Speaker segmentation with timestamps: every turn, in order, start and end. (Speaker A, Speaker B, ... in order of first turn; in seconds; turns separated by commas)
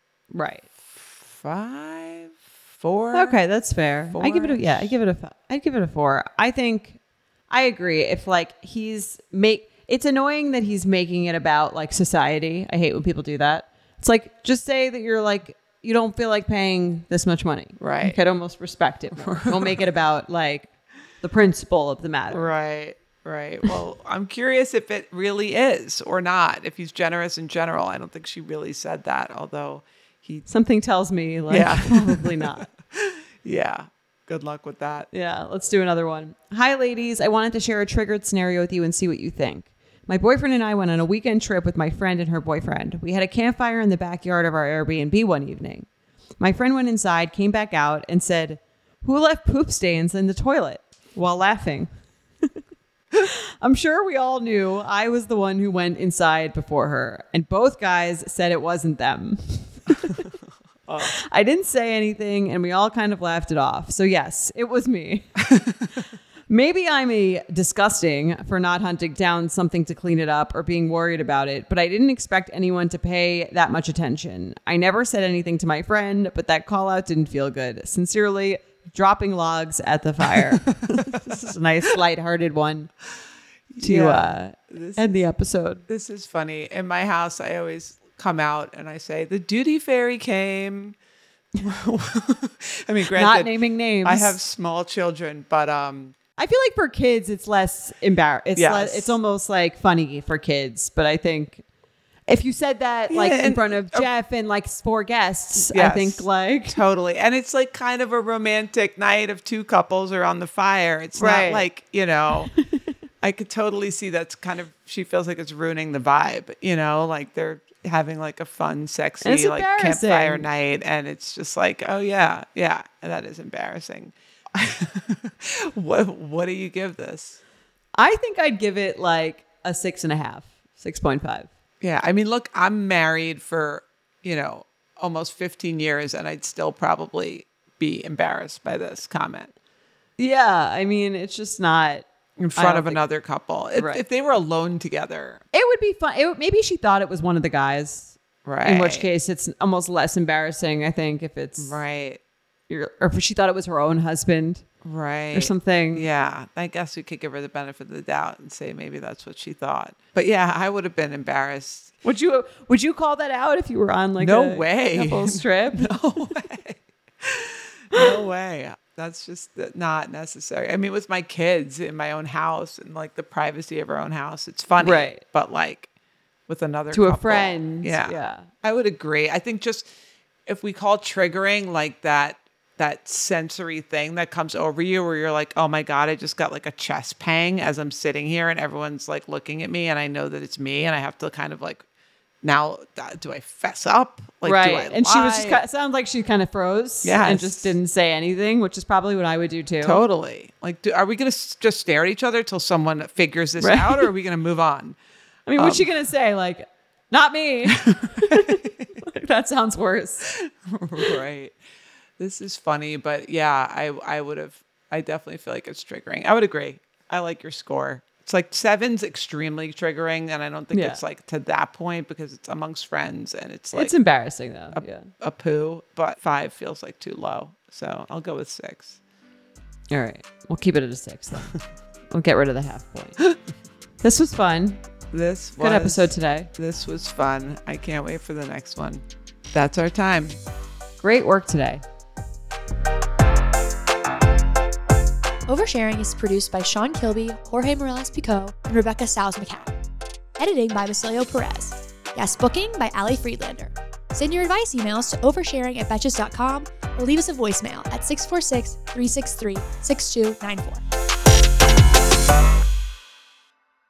Speaker A: 0.3-0.7, Speaker B: 0.9-3.4, Speaker A: 3.1-7.0, Speaker B: 4.1-4.9, Speaker A: 7.5-20.7, Speaker B: 17.8-18.2, Speaker B: 19.2-19.8, Speaker A: 21.2-22.4, Speaker B: 22.3-30.4, Speaker A: 30.4-32.7, Speaker B: 31.5-35.1, Speaker A: 35.1-45.9, Speaker A: 46.4-51.9, Speaker A: 53.2-60.2, Speaker B: 60.9-61.1, Speaker A: 61.0-65.3, Speaker A: 66.5-82.9, Speaker B: 80.9-81.2, Speaker B: 83.7-85.2, Speaker A: 83.8-85.8, Speaker B: 85.9-91.0, Speaker B: 91.6-96.2, Speaker A: 93.2-94.4, Speaker A: 96.4-101.6, Speaker B: 98.6-99.2, Speaker A: 102.3-106.8, Speaker B: 103.1-104.1, Speaker B: 105.5-112.5, Speaker A: 111.2-111.7, Speaker B: 113.2-127.4, Speaker A: 119.2-120.5, Speaker A: 128.0-131.5, Speaker B: 131.8-139.5, Speaker A: 140.2-143.0, Speaker B: 142.4-145.4, Speaker A: 143.7-144.0, Speaker A: 145.5-151.8, Speaker B: 148.4-149.1, Speaker B: 151.6-152.2, Speaker A: 152.7-154.7, Speaker B: 154.8-161.9, Speaker A: 155.3-156.1, Speaker A: 162.0-165.9, Speaker B: 164.2-175.9, Speaker A: 174.8-175.2, Speaker B: 176.5-179.9, Speaker A: 176.9-178.5, Speaker B: 180.4-191.8, Speaker B: 192.4-195.6, Speaker A: 194.4-200.0, Speaker B: 197.0-197.7, Speaker B: 199.8-205.0, Speaker A: 203.6-204.1, Speaker A: 205.5-210.3, Speaker B: 205.6-205.9, Speaker B: 207.9-208.6, Speaker B: 210.3-211.6, Speaker B: 212.2-223.9, Speaker A: 220.7-221.0, Speaker A: 223.7-225.1, Speaker B: 224.7-229.0, Speaker A: 229.9-231.6, Speaker A: 232.1-233.2, Speaker A: 234.0-234.8, Speaker B: 235.1-240.4, Speaker A: 235.6-236.5, Speaker A: 241.0-241.8, Speaker C: 245.5-249.7, Speaker C: 250.4-260.8